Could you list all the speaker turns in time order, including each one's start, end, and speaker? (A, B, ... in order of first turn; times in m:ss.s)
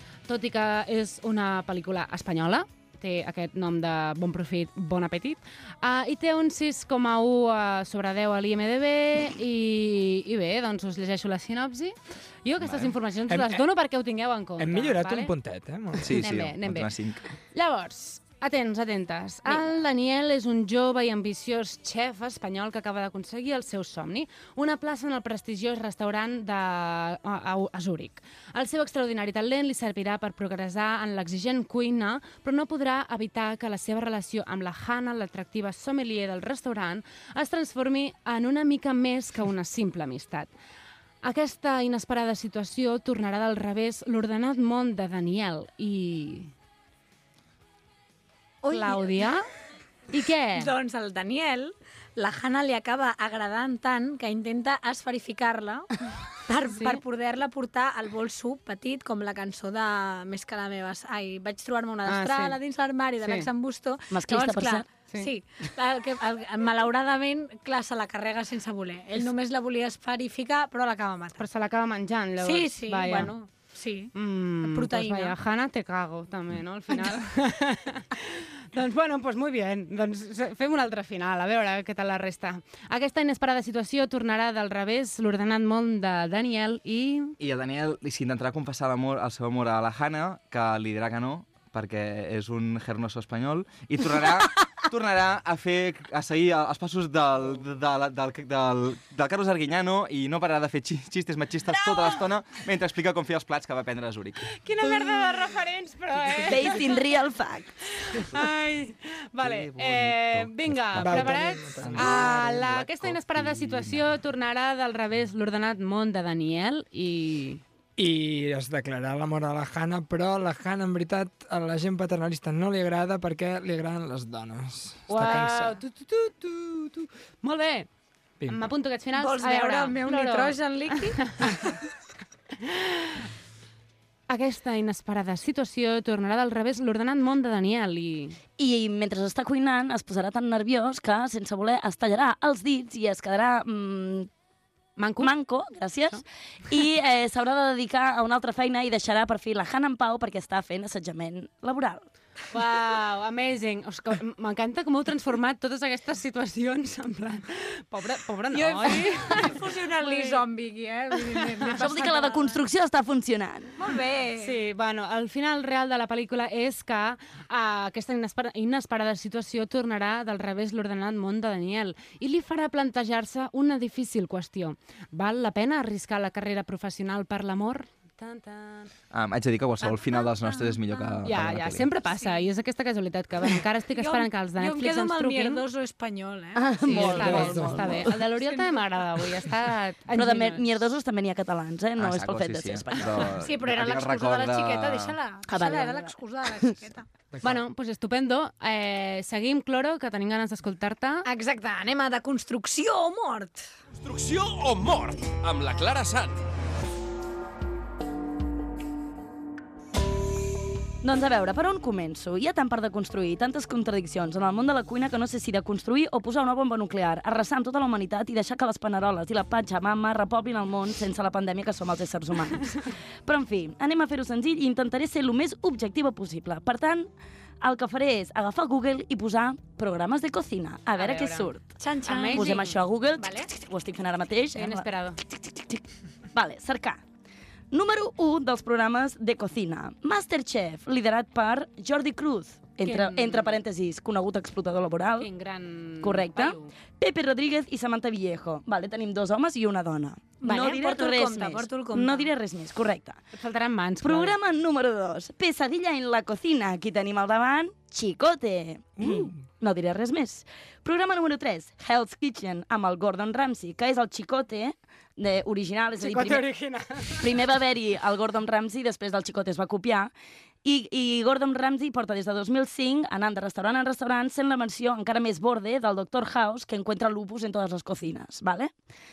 0:00.3-0:15.3 A
0:12.6-0:12.9 B
0:13.3-0:13.6 C
0:14.6-0:16.2 C
0:16.0-0:17.3 B
0:16.2-0:16.9 A
0:17.5-0:40.5 A
0:41.2-0:46.5 A
0:48.6-0:49.4 D
0:48.7-0:49.4 A
0:50.1-0:50.7 A
0:50.6-1:11.4 D
0:56.8-0:57.0 A
1:02.0-1:02.6 A
1:03.2-1:03.5 A
1:04.1-1:04.9 E
1:11.4-1:13.3 A
1:12.4-1:15.4 D
1:14.1-1:27.3 A
1:27.4-1:44.5 B
1:44.6-1:46.9 A
1:44.8-1:45.5 D
1:46.5-1:47.7 E
1:48.0-1:57.6 A
1:49.4-1:54.2 B
1:51.0-1:52.4 C
1:58.0-2:05.8 C
2:05.1-2:07.9 A
2:08.4-2:08.7 C
2:08.5-2:10.7 A
2:09.1-2:11.8 D
2:12.6-2:13.2 A
2:14.3-2:18.4 A
2:18.6-2:24.3 E
2:25.0-2:25.3 A
2:25.2-2:32.0 E
2:32.5-2:40.4 A
2:38.5-2:42.6 D
2:41.8-2:43.7 E
2:43.8-2:44.6 D
2:44.4-2:58.9 A
2:59.1-3:01.9 B
2:59.8-3:01.2 D
3:01.2-3:05.6 A
3:02.0-3:02.4 D
3:04.0-3:09.4 D
3:06.6-3:08.1 E
3:06.8-3:10.8 A
3:06.9-3:08.0 C
3:10.1-3:13.3 E
3:12.0-3:15.2 B
3:13.4-3:17.0 D
3:15.5-3:16.1 E
3:17.3-3:17.6 C
3:17.4-3:21.2 A
3:21.2-3:23.6 D
3:24.0-3:26.4 F
3:31.0-3:47.1 E
3:47.6-3:51.7 E
3:51.0-3:51.5 A
3:51.8-3:52.6 D
3:52.1-3:52.8 A
3:52.3-3:57.0 E
3:53.2-3:53.5 D
3:54.5-3:55.2 A
3:57.7-4:05.3 E
4:02.8-4:03.6 A
4:05.2-4:06.7 A
4:06.0-4:13.2 E
4:10.4-4:12.3 D
4:13.3-4:14.4 A
4:14.0-4:26.5 E
4:19.0-4:19.3 C
4:26.0-4:27.4 A
4:27.2-4:30.1 E
4:30.6-4:38.7 E